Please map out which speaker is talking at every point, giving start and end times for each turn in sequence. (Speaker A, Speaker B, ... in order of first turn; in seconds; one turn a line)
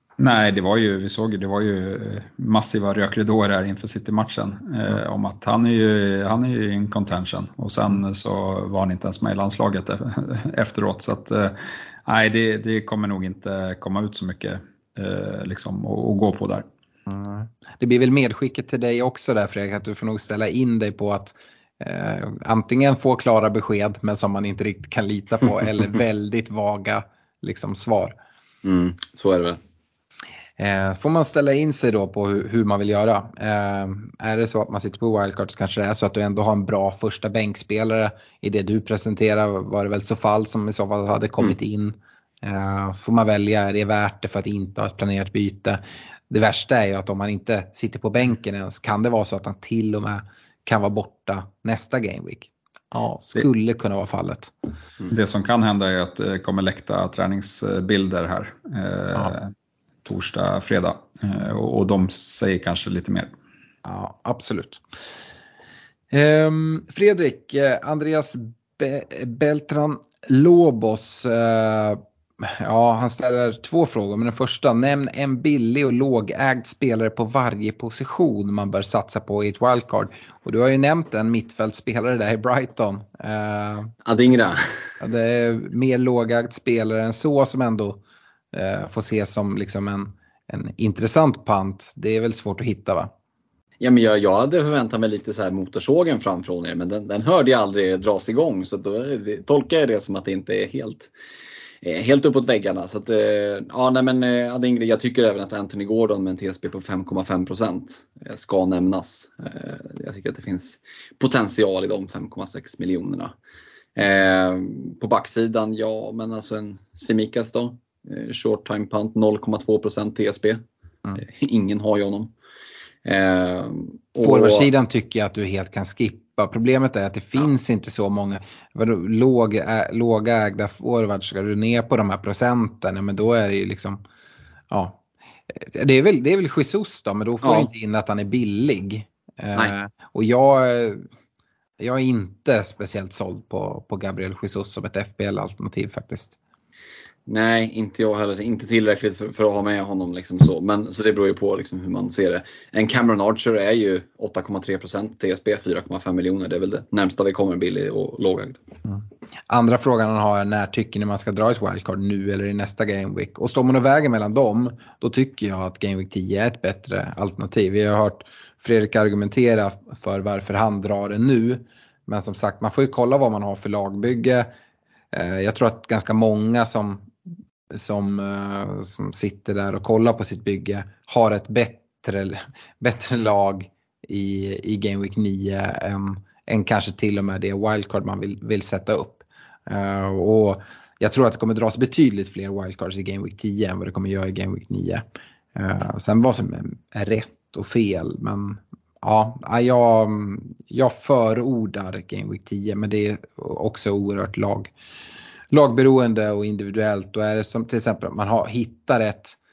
Speaker A: 0.2-16.7
Speaker B: 17.1-28.2
Speaker C: 28.6-29.6
Speaker B: 30.6-54.5
Speaker A: 55.1-59.5
Speaker A: 60.0-63.3
Speaker B: 63.9-64.8
Speaker B: 66.1-83.9
Speaker C: 84.1-84.6
Speaker B: 85.0-88.0
Speaker B: 88.5-93.1
Speaker C: 93.8-101.1
Speaker C: 101.8-113.3
Speaker C: 114.0-120.6
Speaker C: 121.2-122.3
Speaker C: 123.0-124.7
Speaker B: 124.2-134.0
Speaker B: 134.7-135.0
Speaker B: 135.6-141.1
Speaker C: 137.4-137.7
Speaker B: 141.8-146.4
Speaker C: 147.3-158.6
Speaker B: 158.9-174.5
Speaker B: 175.1-177.1
Speaker B: 177.7-195.0
Speaker B: 195.6-204.7
Speaker B: 205.5-209.4